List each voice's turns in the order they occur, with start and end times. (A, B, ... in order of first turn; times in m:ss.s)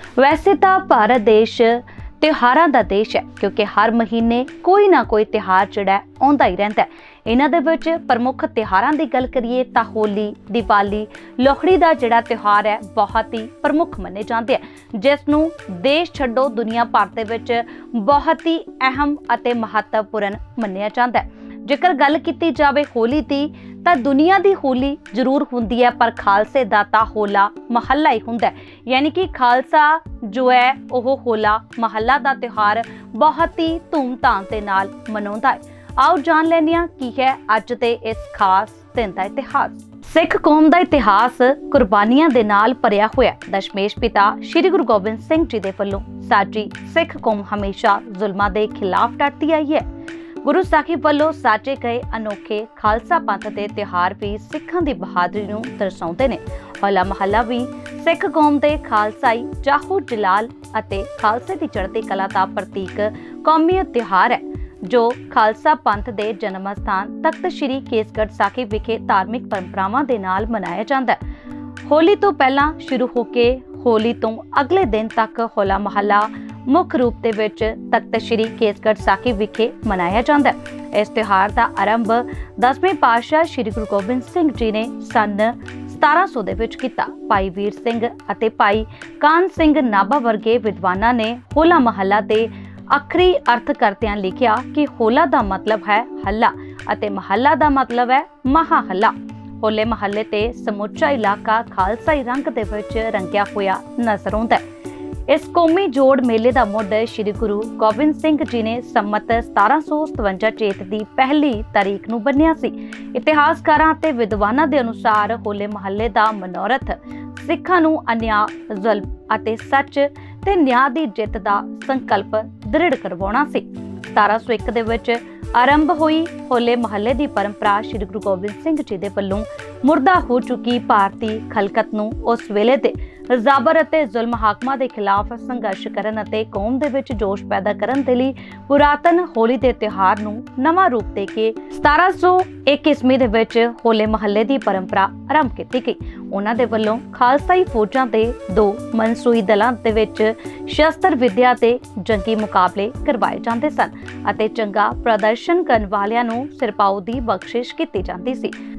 0:00.2-0:49.8 A
0:50.4-1:11.2 A
1:11.8-1:44.6 A
1:45.3-2:38.5 A